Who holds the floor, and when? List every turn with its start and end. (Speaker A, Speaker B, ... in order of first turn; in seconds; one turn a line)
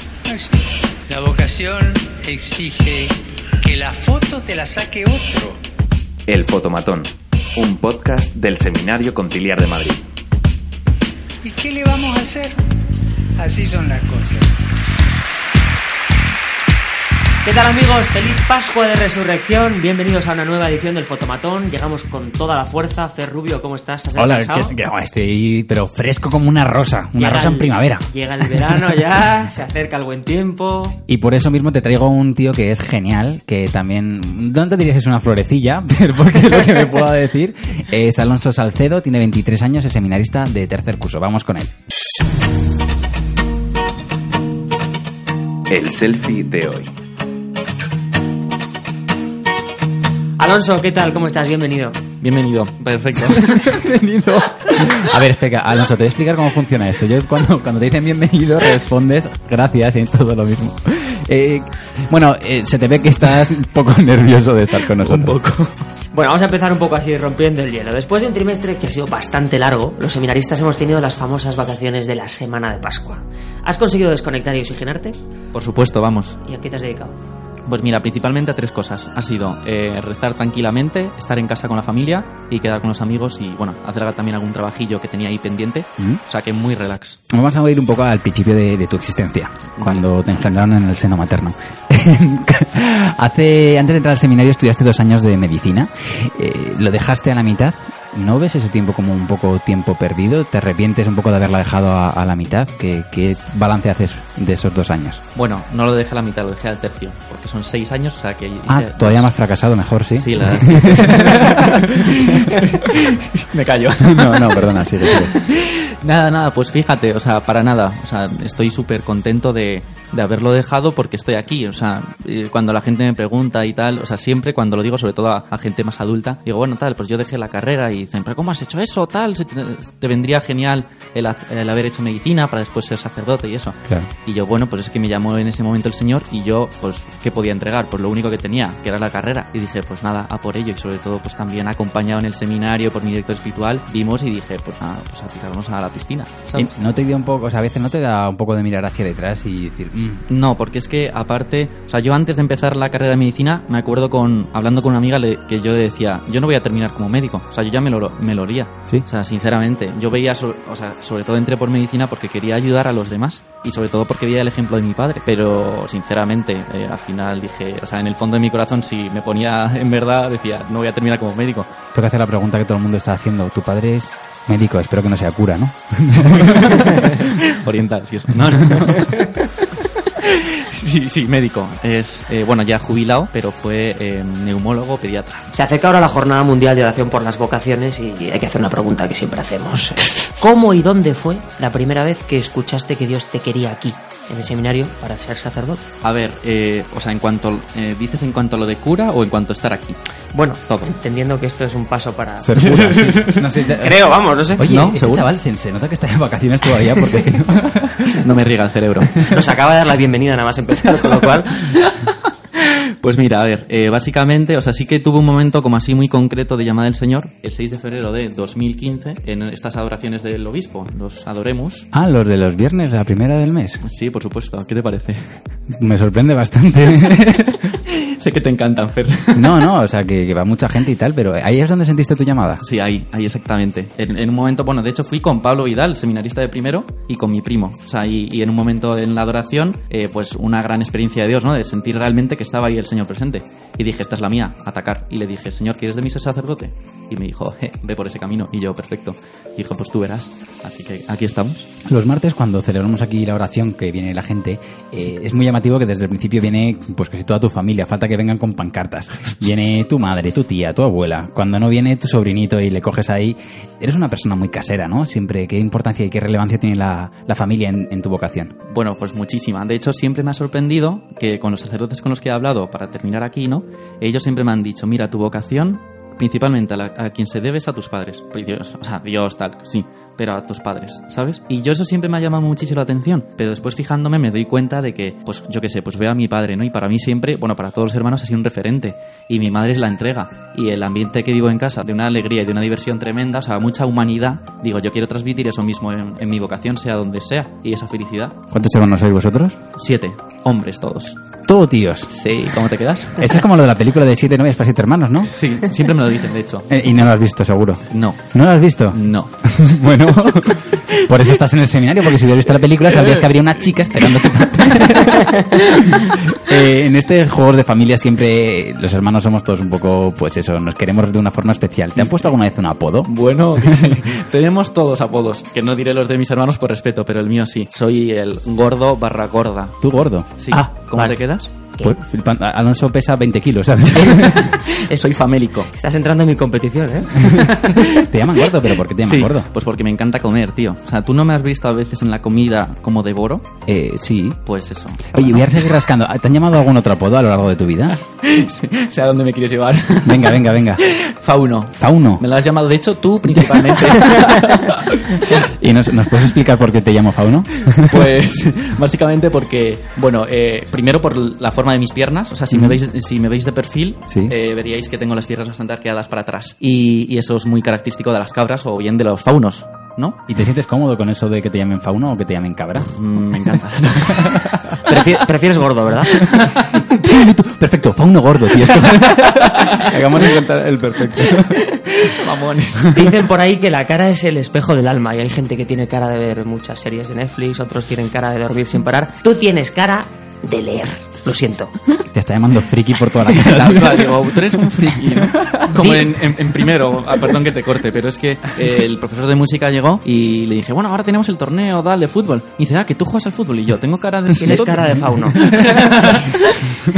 Speaker A: 0.2-5.6
Speaker B: 6.3-10.1
Speaker A: 11.4-12.6
Speaker A: 13.4-14.5
Speaker C: 17.4-24.8
Speaker D: 24.1-28.5
Speaker C: 27.1-31.0
Speaker D: 31.1-41.7
Speaker B: 45.7-46.9
Speaker C: 50.4-52.0
Speaker E: 52.2-53.8
Speaker D: 53.3-65.3
Speaker E: 64.8-65.8
Speaker C: 66.1-75.2
Speaker E: 75.5-76.4
Speaker C: 76.4-77.2
Speaker E: 77.7-87.2
Speaker D: 87.3-105.2
Speaker E: 89.7-90.0
Speaker E: 105.3-109.3
Speaker D: 108.7-112.6
Speaker E: 110.1-146.7
Speaker D: 114.0-115.3
Speaker D: 146.5-150.2
Speaker E: 150.3-171.7
Speaker D: 171.9-177.2
Speaker E: 176.6-185.5
Speaker C: 185.5-195.8
Speaker E: 196.0-200.0
Speaker C: 200.3-204.9
Speaker D: 202.4-208.2
Speaker E: 202.6-203.7
Speaker E: 204.6-205.3
Speaker E: 208.1-209.3
Speaker C: 209.2-211.8
Speaker E: 211.7-221.9
Speaker D: 221.9-223.8
Speaker E: 223.8-225.4
Speaker D: 225.7-227.7
Speaker E: 227.7-229.7
Speaker D: 229.3-232.6
Speaker E: 232.6-251.7
Speaker D: 251.9-268.5
Speaker E: 268.7-298.4
Speaker D: 298.5-299.6
Speaker E: 299.8-301.2
Speaker D: 301.4-302.1
Speaker E: 302.1-303.4
Speaker D: 303.2-305.3
Speaker E: 305.2-306.9
Speaker D: 306.7-323.9
Speaker E: 307.9-308.2
Speaker E: 308.9-309.3
Speaker E: 312.9-313.3
Speaker E: 314.1-316.0
Speaker E: 321.9-322.2
Speaker E: 323.1-331.5
Speaker D: 329.8-330.6
Speaker C: 330.5-331.1
Speaker D: 331.8-334.5
Speaker E: 333.9-335.7
Speaker C: 335.7-337.5
Speaker D: 337.2-339.5
Speaker E: 337.3-338.1
Speaker E: 339.0-343.5
Speaker D: 343.7-344.4
Speaker E: 344.4-345.7
Speaker D: 345.1-348.0
Speaker E: 348.1-355.4
Speaker D: 350.1-350.8
Speaker D: 351.8-352.2
Speaker D: 355.3-358.1
Speaker E: 357.7-370.2
Speaker D: 362.5-362.8
Speaker D: 364.1-364.3
Speaker D: 370.3-372.9
Speaker E: 372.9-374.9
Speaker D: 374.2-374.5
Speaker C: 374.8-376.3
Speaker E: 376.1-376.7
Speaker D: 376.7-381.8
Speaker E: 378.6-380.3
Speaker E: 381.6-383.2
Speaker C: 382.9-391.7
Speaker D: 392.1-395.3
Speaker E: 393.2-406.8
Speaker C: 395.7-396.1
Speaker C: 404.4-405.5